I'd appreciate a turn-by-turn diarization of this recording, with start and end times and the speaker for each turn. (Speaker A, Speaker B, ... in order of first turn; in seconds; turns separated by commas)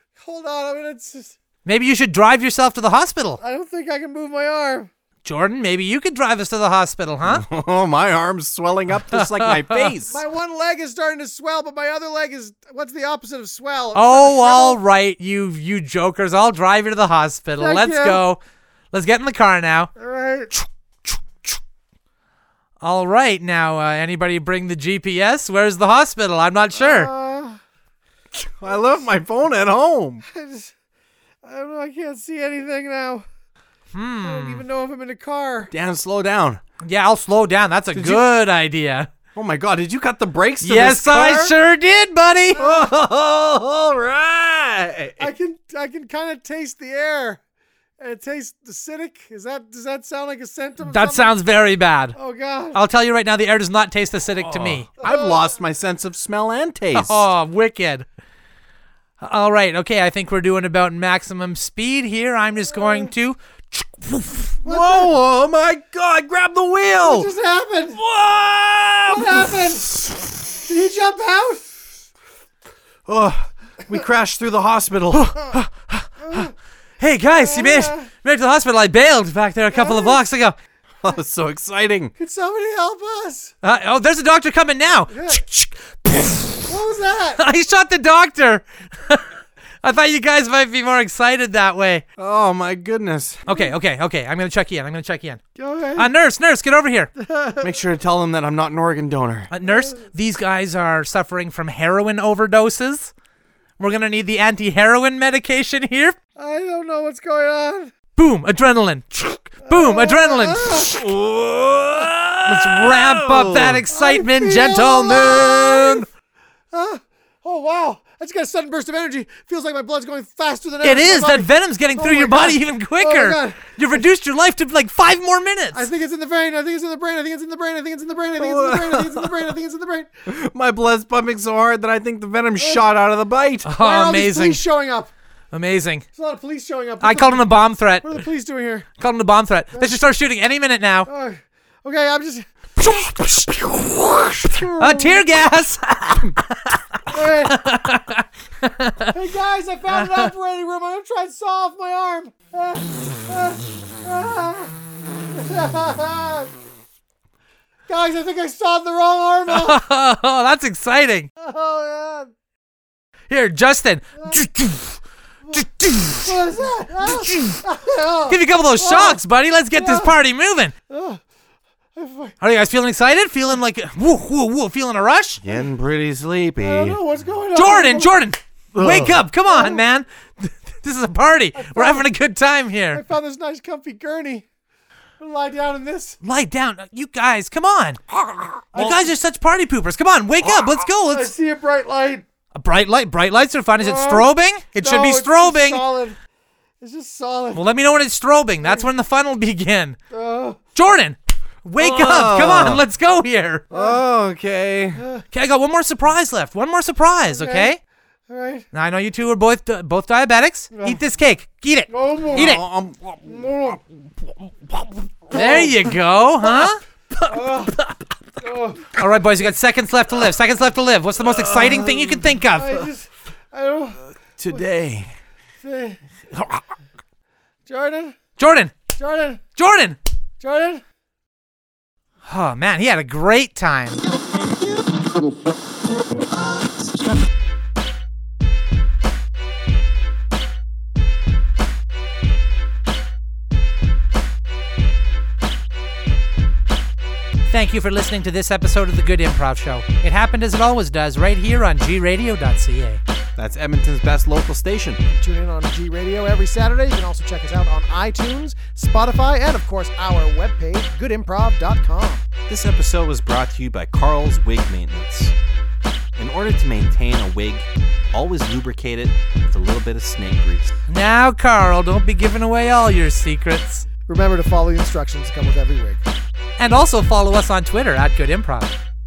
Speaker A: 0.2-1.4, Speaker B: 1.6-3.4, Speaker A: 3.4-4.9, Speaker B: 5.2-7.4, Speaker C: 7.2-10.2, Speaker B: 8.9-9.9, Speaker A: 10.1-14.8, Speaker B: 13.9-18.4, Speaker A: 17.6-18.2, Speaker B: 18.9-19.9, Speaker A: 19.9-20.5, Speaker B: 20.5-21.5, Speaker B: 22.8-27.1, Speaker A: 26.8-27.6, Speaker C: 28.3-30.2, Speaker A: 30.3-30.7, Speaker A: 31.4-33.2, Speaker B: 33.9-34.6, Speaker A: 34.2-35.7, Speaker C: 35.7-36.6, Speaker B: 36.8-39.1, Speaker C: 37.9-38.2, Speaker C: 39.4-41.5, Speaker B: 40.6-42.6, Speaker A: 42.6-42.9, Speaker C: 42.6-45.3, Speaker A: 45.2-47.4, Speaker A: 48.0-51.4, Speaker B: 50.8-52.2, Speaker A: 52.1-52.8, Speaker B: 52.7-54.9, Speaker C: 54.4-57.3, Speaker A: 55.0-55.5, Speaker B: 56.9-58.1, Speaker B: 59.2-64.6, Speaker A: 62.7-63.1, Speaker A: 64.6-65.2, Speaker C: 64.6-67.3, Speaker A: 67.0-68.0, Speaker C: 68.0-70.5, Speaker A: 69.1-70.0, Speaker A: 70.6-71.7, Speaker C: 73.1-75.4, Speaker B: 75.1-80.6, Speaker A: 76.2-76.5, Speaker A: 77.3-78.1, Speaker A: 79.7-80.2, Speaker C: 81.0-82.1, Speaker A: 82.2-83.5, Speaker B: 83.6-86.8, Speaker A: 85.1-85.4, Speaker A: 86.7-87.4, Speaker B: 87.4-89.3, Speaker B: 89.8-92.0, Speaker C: 92.2-93.5, Speaker B: 93.5-95.4, Speaker A: 95.6-96.1, Speaker B: 96.0-97.1, Speaker A: 97.2-97.7, Speaker C: 97.6-99.5, Speaker B: 99.5-103.1, Speaker A: 99.6-100.0, Speaker B: 103.8-106.2, Speaker A: 106.4-107.9, Speaker B: 108.2-111.0, Speaker A: 109.6-111.0, Speaker C: 111.0-113.8, Speaker B: 112.5-116.0, Speaker A: 113.9-116.0, Speaker A: 116.7-123.8, Speaker B: 120.8-125.9, Speaker A: 125.7-130.1, Speaker C: 128.4-129.5, Speaker C: 130.3-133.7, Speaker A: 132.6-132.8, Speaker B: 133.6-134.6, Speaker A: 133.8-135.1, Speaker B: 135.5-136.1, Speaker A: 136.2-138.9, Speaker B: 137.0-138.2, Speaker B: 139.0-141.1, Speaker A: 141.1-142.5, Speaker B: 142.8-143.7, Speaker A: 144.4-145.3, Speaker B: 144.5-149.1, Speaker A: 147.1-147.6, Speaker A: 149.1-154.7, Speaker B: 149.9-150.3, Speaker A: 155.3-156.5, Speaker A: 157.9-159.8, Speaker B: 159.5-161.3, Speaker A: 161.4-162.3, Speaker B: 163.3-165.0, Speaker A: 164.2-164.4, Speaker A: 165.4-169.2, Speaker B: 165.5-166.4, Speaker B: 167.0-167.6, Speaker B: 168.3-170.7, Speaker A: 169.7-170.1, Speaker A: 170.9-171.2, Speaker A: 171.9-172.3, Speaker B: 172.4-175.4, Speaker C: 175.4-177.0, Speaker A: 176.6-178.2, Speaker B: 177.6-183.0, Speaker C: 178.8-179.2, Speaker A: 179.4-179.8, Speaker A: 181.6-182.1, Speaker A: 182.9-184.4, Speaker A: 185.2-186.2, Speaker B: 186.2-188.0, Speaker A: 188.7-189.1, Speaker B: 188.8-191.3, Speaker A: 191.1-192.2, Speaker B: 192.5-195.8, Speaker A: 193.8-196.2, Speaker A: 196.8-197.6, Speaker B: 197.5-200.0, Speaker A: 198.6-198.9, Speaker A: 200.1-200.6, Speaker B: 200.8-203.6, Speaker C: 201.8-202.8, Speaker C: 203.7-205.0, Speaker A: 203.7-204.0, Speaker A: 204.9-205.3, Speaker B: 205.3-207.8, Speaker A: 207.3-207.7, Speaker A: 208.3-208.7, Speaker B: 208.7-212.6, Speaker A: 210.7-211.0, Speaker A: 211.9-212.6, Speaker C: 212.3-213.5, Speaker A: 213.2-213.8, Speaker A: 215.3-216.0, Speaker B: 215.3-216.8, Speaker C: 217.2-218.1, Speaker A: 217.3-217.8, Speaker A: 218.4-219.0, Speaker B: 218.9-222.8, Speaker C: 221.2-222.4, Speaker A: 222.6-224.6, Speaker C: 224.2-225.1, Speaker A: 225.6-226.0, Speaker C: 226.3-226.6, Speaker A: 227.7-228.2, Speaker B: 228.4-228.8, Speaker A: 229.0-229.4, Speaker B: 229.6-230.0, Speaker A: 230.4-230.8, Speaker B: 232.2-234.0, Speaker B: 247.5-253.0, Speaker C: 253.4-255.0, Speaker A: 255.1-262.3, Speaker C: 262.5-265.3, Speaker C: 266.1-270.8, Speaker B: 270.9-273.9, Speaker A: 274.1-276.1, Speaker B: 276.6-278.8